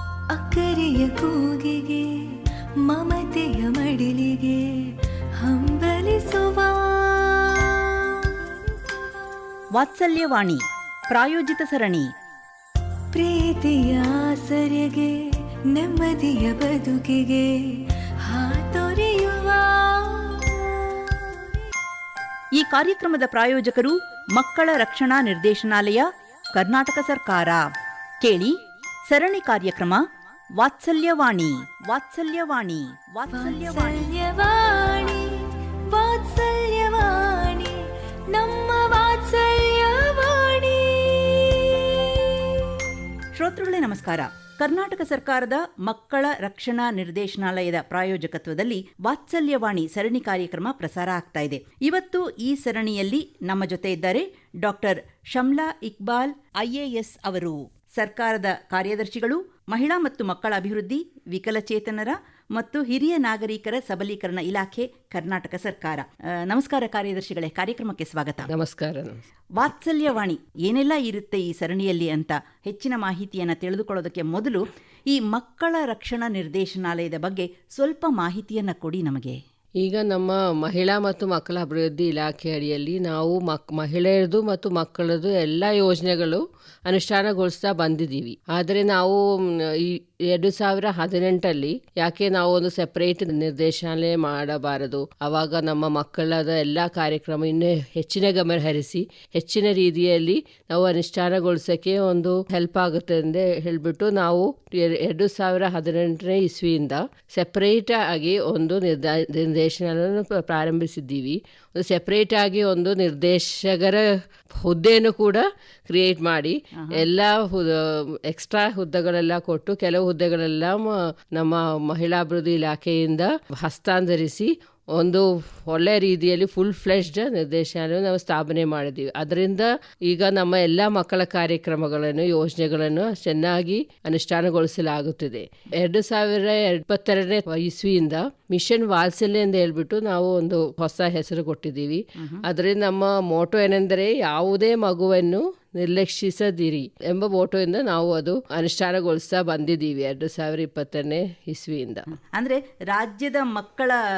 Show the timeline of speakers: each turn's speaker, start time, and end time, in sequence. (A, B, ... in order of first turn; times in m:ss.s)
0:00.3-0:09.0 A
0:09.7-0:12.1 B
0:13.1-0:15.2 A
0:15.7-0:21.4 A
0:22.6-0:27.7 B
0:28.2-0:30.0 B
0:30.6-0:35.2 B
0:33.3-0:37.8 A
0:38.3-0:42.7 A
0:43.3-1:08.5 B
1:08.5-1:09.2 C
1:09.6-1:19.4 B
1:19.8-2:32.1 C
1:56.8-1:57.0 B
2:22.2-2:22.4 B
2:32.1-2:33.9 B